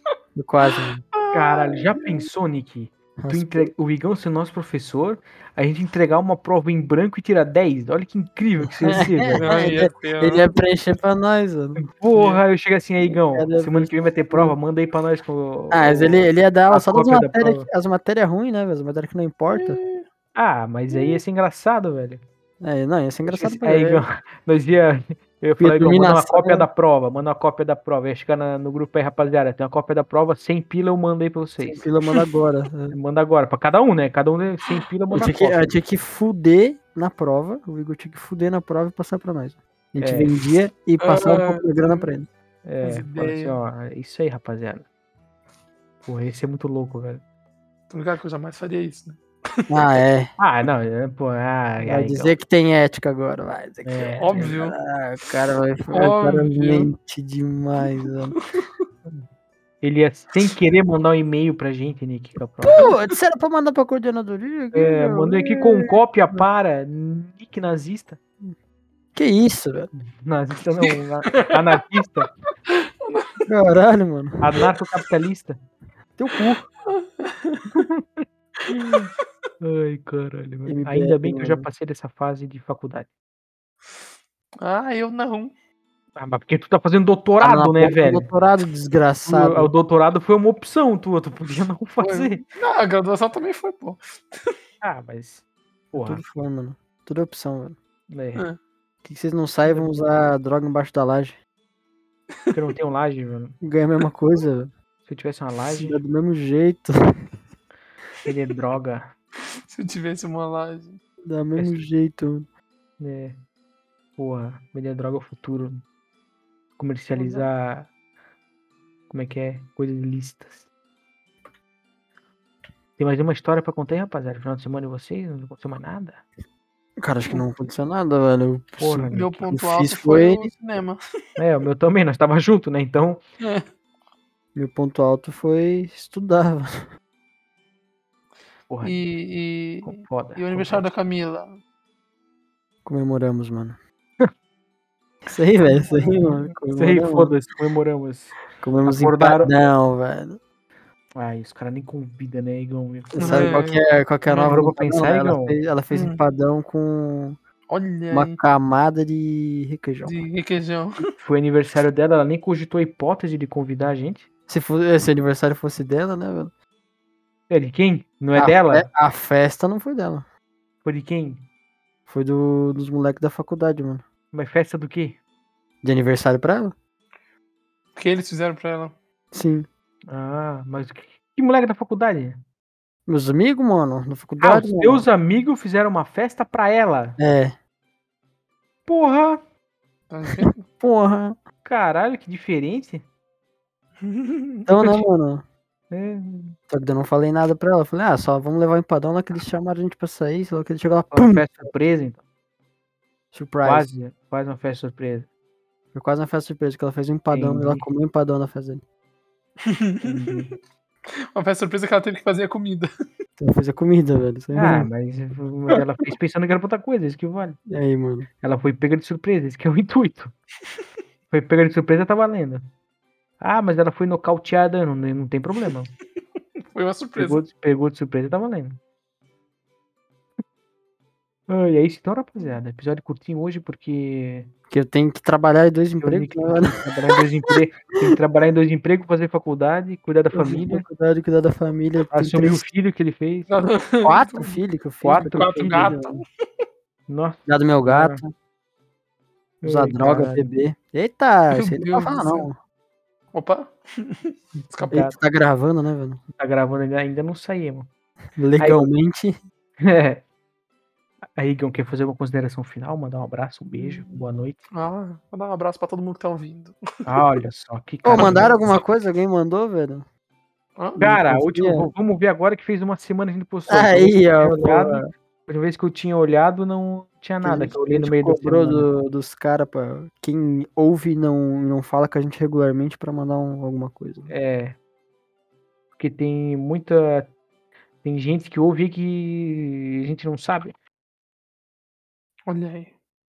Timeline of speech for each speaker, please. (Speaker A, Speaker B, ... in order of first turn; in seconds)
Speaker A: 0.4-1.0, 3.2-3.7, 8.6-11.8, 13.0-14.6, 15.7-19.8, 22.6-24.1, 25.6-26.7, 31.6-33.0, 35.1-42.3, 49.7-50.3, 51.8-58.4, 62.6-66.0, 69.2-69.9, 73.5-74.5, 76.2-76.6, 80.7-81.7, 87.4-89.7, 96.0-97.8, 99.0-101.4, 103.6-104.7, 105.8-106.9, 111.2-112.5, 127.0-130.5, 134.6-136.9, 142.8-143.8, 145.2-147.3, 148.6-150.4, 153.2-157.4, 158.1-160.2, 164.5-166.5, 168.4-170.3, 172.1-174.0, 175.8-176.8, 179.3-179.7, 183.1-185.1, 187.2-187.6, 190.3-191.4, 194.7-195.4, 196.7-201.5, 203.3-203.9, 205.9-208.8, 213.4-214.9, 217.7-218.3, 234.7-236.9, 240.3-242.7, 244.1-246.2, 247.5-248.3, 249.6-252.6, 254.9-256.2, 258.4-259.4, 268.0-270.1, 271.0-271.9, 273.7-275.1, 277.4-284.3
Speaker B: 1.1-2.3, 9.3-10.5, 12.1-12.4, 19.5-20.1, 41.0-42.1, 42.8-43.6, 47.9-49.6, 54.2-54.8, 55.9-56.9, 57.9-58.7, 70.8-71.6, 72.7-73.4, 76.9-77.8, 84.6-85.5, 92.0-94.5, 109.7-111.0, 117.1-117.5, 129.1-131.0, 133.4-133.7, 138.8-141.6, 145.7-146.3, 153.2-154.6, 155.9-156.2, 157.7-158.4, 160.1-161.0, 178.0-178.9, 190.1-190.6, 194.0-194.7, 209.7-210.4, 211.3-212.9, 226.7-227.4, 243.5-244.6, 245.2-246.3, 251.6-252.5, 253.3-255.0, 263.8-266.8, 268.2-268.5, 270.8-271.0, 292.5-292.9
Speaker C: 1.3-9.6, 11.8-17.7, 20.4-22.2, 23.3-31.9, 32.9-35.7, 40.0-40.3, 42.6-44.9, 46.0-47.2, 50.4-52.4, 53.9-54.5, 59.8-62.9, 64.7-68.2, 70.2-72.3, 74.4-75.6, 77.8-83.1, 86.2-88.3, 89.2-92.4, 94.8-96.2, 98.1-98.5, 102.5-103.6, 105.1-106.0, 108.2-109.1, 113.0-113.4, 114.2-115.8, 116.8-117.9, 119.1-120.7, 123.0-126.2, 128.8-129.3, 131.4-133.2, 138.7-139.0, 139.8-140.9, 146.8-149.5, 151.2-153.6, 154.3-155.6, 161.2-164.3, 167.5-168.9, 170.8-171.5, 174.3-175.2, 180.1-182.4, 184.4-187.2, 188.9-189.4, 191.7-193.1, 194.8-195.1, 195.9-196.6, 201.1-202.2, 203.7-205.3, 207.3-207.9, 210.0-210.5, 214.6-217.6, 218.4-220.3, 221.3-222.6, 223.4-225.9, 227.2-228.8, 231.5-234.5, 236.0-240.9, 242.1-243.5, 245.0-246.0, 247.1-248.2, 249.6-250.5, 254.8-255.2, 256.4-257.9, 258.6-258.9, 259.8-260.2, 261.4-264.6, 267.1-268.7, 271.0-278.9, 284.3-284.8, 286.0-287.3, 288.0-290.7